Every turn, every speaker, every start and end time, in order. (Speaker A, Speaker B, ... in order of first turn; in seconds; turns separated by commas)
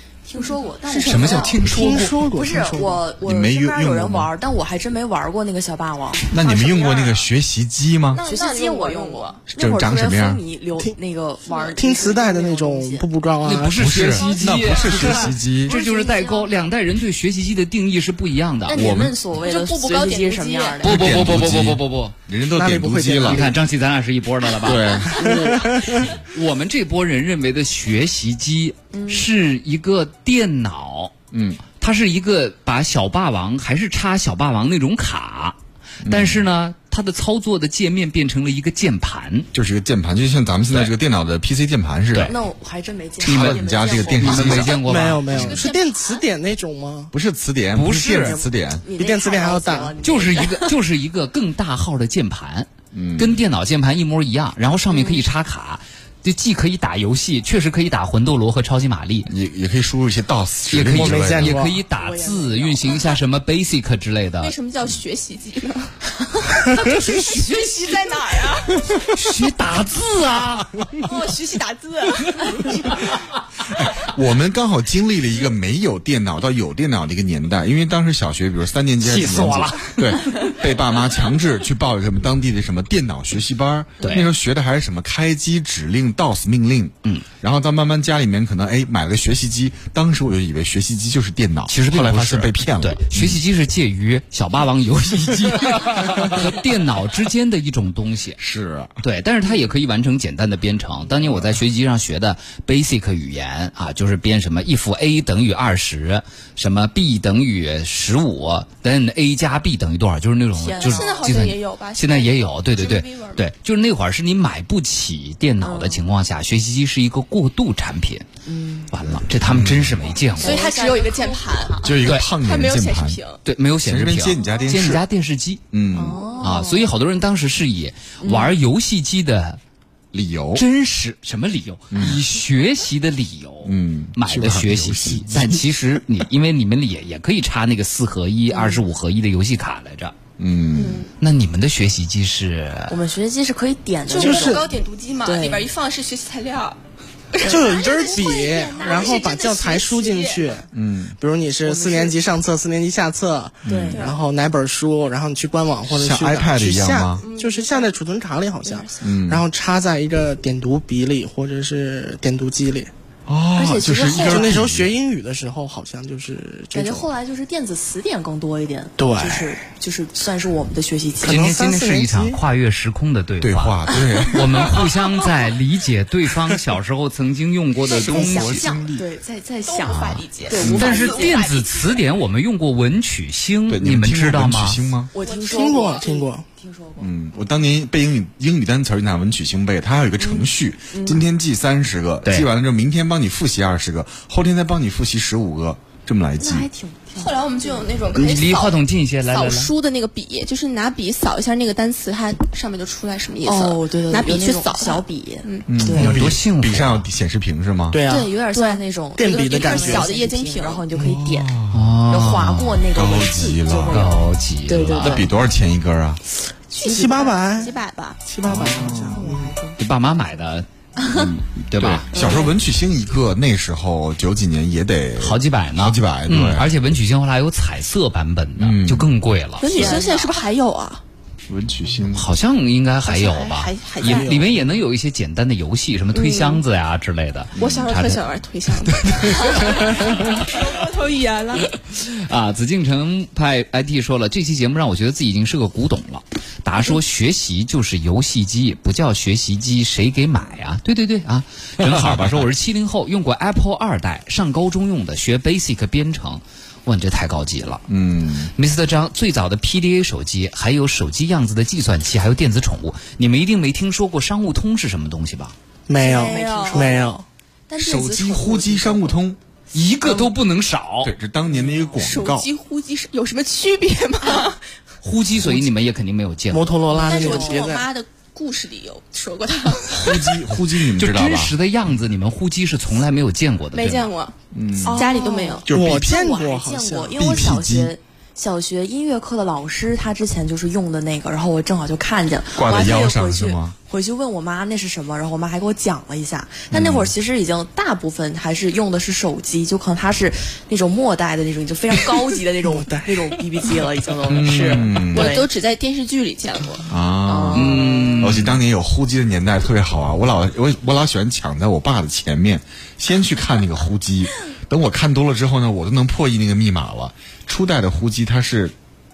Speaker A: 0.2-7.2, Speaker B: 0.4-1.6, Speaker C: 1.0-2.2, Speaker D: 1.6-3.1, Speaker E: 3.2-4.3, Speaker E: 6.3-8.2, Speaker B: 8.1-9.4, Speaker A: 8.2-13.1, Speaker E: 9.5-10.4, Speaker B: 11.5-11.7, Speaker D: 11.7-14.0, Speaker C: 13.4-18.9, Speaker E: 13.7-15.8, Speaker B: 14.1-15.0, Speaker A: 14.3-16.6, Speaker A: 18.7-21.3, Speaker E: 18.8-19.1, Speaker B: 19.3-21.0, Speaker C: 20.8-22.1, Speaker E: 20.8-23.5, Speaker D: 22.5-23.5, Speaker C: 23.2-31.1, Speaker E: 24.6-25.5, Speaker D: 25.1-26.1, Speaker A: 28.9-29.3, Speaker E: 31.3-31.6, Speaker C: 31.8-39.5, Speaker E: 36.0-36.4, Speaker E: 39.5-42.4, Speaker A: 42.2-44.8, Speaker E: 43.2-44.8, Speaker C: 43.2-45.5, Speaker D: 44.3-47.1, Speaker B: 44.5-46.2, Speaker E: 47.1-48.9, Speaker C: 47.7-48.4, Speaker A: 48.2-50.8, Speaker D: 48.9-50.0, Speaker C: 50.0-59.3, Speaker E: 52.9-53.4, Speaker A: 54.9-55.2, Speaker E: 59.3-61.5, Speaker C: 60.7-64.5, Speaker D: 60.9-61.8, Speaker A: 61.9-63.1, Speaker B: 64.4-65.9, Speaker B: 66.5-69.0, Speaker C: 66.7-67.7, Speaker C: 69.0-71.0, Speaker B: 71.0-73.1, Speaker E: 73.7-93.4, Speaker C: 79.0-80.2, Speaker C: 84.0-84.3, Speaker C: 91.7-98.4, Speaker E: 98.4-99.0, Speaker C: 99.0-118.3, Speaker A: 110.6-111.4, Speaker B: 110.8-113.4, Speaker A: 115.6-116.0, Speaker A: 118.5-118.9, Speaker C: 118.9-120.7, Speaker E: 119.0-120.1, Speaker A: 120.3-122.0, Speaker B: 120.4-123.4, Speaker E: 121.8-123.2, Speaker C: 122.0-122.3, Speaker C: 123.4-125.6, Speaker E: 123.8-125.0, Speaker A: 124.4-124.7, Speaker E: 125.7-126.3, Speaker A: 125.9-126.9, Speaker C: 126.4-129.6, Speaker A: 128.2-128.5, Speaker E: 130.1-130.6, Speaker C: 130.6-140.2, Speaker E: 131.9-132.2, Speaker E: 133.6-135.6, Speaker A: 138.5-138.8, Speaker E: 140.4-141.1, Speaker B: 140.8-141.0, Speaker C: 141.2-143.0, Speaker A: 142.9-144.7, Speaker B: 144.1-146.8, Speaker D: 144.1-144.7, Speaker A: 145.2-145.7, Speaker B: 147.3-150.6, Speaker A: 147.4-149.2, Speaker D: 147.4-162.9, Speaker E: 150.7-151.2, Speaker A: 151.7-152.2, Speaker E: 153.7-154.0, Speaker A: 153.7-154.1, Speaker B: 153.9-154.2, Speaker E: 155.9-157.2, Speaker A: 157.2-157.6, Speaker B: 157.2-157.9, Speaker E: 159.0-159.4, Speaker E: 163.3-164.9, Speaker A: 163.6-164.6, Speaker D: 164.2-167.1, Speaker A: 166.7-171.4, Speaker D: 169.0-169.7, Speaker D: 171.2-172.4, Speaker C: 171.2-178.7, Speaker E: 173.4-174.8, Speaker A: 177.9-181.8, Speaker E: 177.9-179.1, Speaker B: 179.7-181.9, Speaker C: 179.9-180.2, Speaker E: 180.6-181.0, Speaker C: 180.8-184.8, Speaker E: 183.7-185.1, Speaker A: 185.1-187.1, Speaker B: 185.2-186.1, Speaker D: 185.5-186.4, Speaker E: 187.0-196.7, Speaker A: 190.2-191.2, Speaker A: 196.4-198.0, Speaker B: 197.2-205.7, Speaker C: 198.1-199.7, Speaker A: 203.4-206.2, Speaker E: 205.7-208.0, Speaker C: 205.9-207.1, Speaker D: 207.9-208.4, Speaker A: 208.1-211.6, Speaker B: 208.5-210.8, Speaker D: 209.2-210.1, Speaker E: 210.9-211.9, Speaker C: 211.7-212.8, Speaker A: 212.1-215.3, Speaker E: 212.9-214.1, Speaker C: 213.9-215.3, Speaker E: 215.0-216.2, Speaker A: 216.7-217.1, Speaker B: 216.8-218.2, Speaker D: 216.8-219.6, Speaker E: 218.4-219.2, Speaker A: 218.5-219.8, Speaker C: 219.8-222.1, Speaker A: 221.0-221.3, Speaker E: 221.2-226.7, Speaker A: 222.1-222.6, Speaker C: 225.2-229.7, Speaker E: 228.6-229.1, Speaker B: 229.6-231.0, Speaker A: 229.6-230.5, Speaker E: 231.5-232.3, Speaker C: 232.1-238.2, Speaker B: 233.1-234.4, Speaker D: 234.0-234.7, Speaker B: 236.1-236.6, Speaker E: 237.6-237.9, Speaker B: 237.6-241.7, Speaker C: 239.1-240.6, Speaker C: 241.9-257.9, Speaker E: 251.8-252.4, Speaker E: 257.9-258.5, Speaker C: 258.5-265.6, Speaker D: 265.9-267.2, Speaker A: 266.0-269.2, Speaker B: 266.0-266.9, Speaker E: 267.8-269.4, Speaker C: 269.7-271.1, Speaker A: 270.0-270.3, Speaker E: 271.0-272.5, Speaker A: 271.5-272.0, Speaker B: 272.0-274.6, Speaker C: 275.0-276.8, Speaker D: 276.5-277.9, Speaker A: 276.9-277.7, Speaker B: 276.9-280.4, Speaker E: 279.9-281.5, Speaker C: 281.0-284.1, Speaker B: 283.7-285.7, Speaker E: 284.5-285.0, Speaker A: 284.8-305.4, Speaker E: 285.7-286.1, Speaker D: 285.7-287.5, Speaker E: 287.2-287.9, Speaker E: 292.6-293.7, Speaker E: 296.7-297.1, Speaker D: 302.6-303.9, Speaker E: 304.3-305.4, Speaker B: 305.1-306.9, Speaker E: 306.9-318.7, Speaker A: 307.2-308.4, Speaker C: 307.5-308.6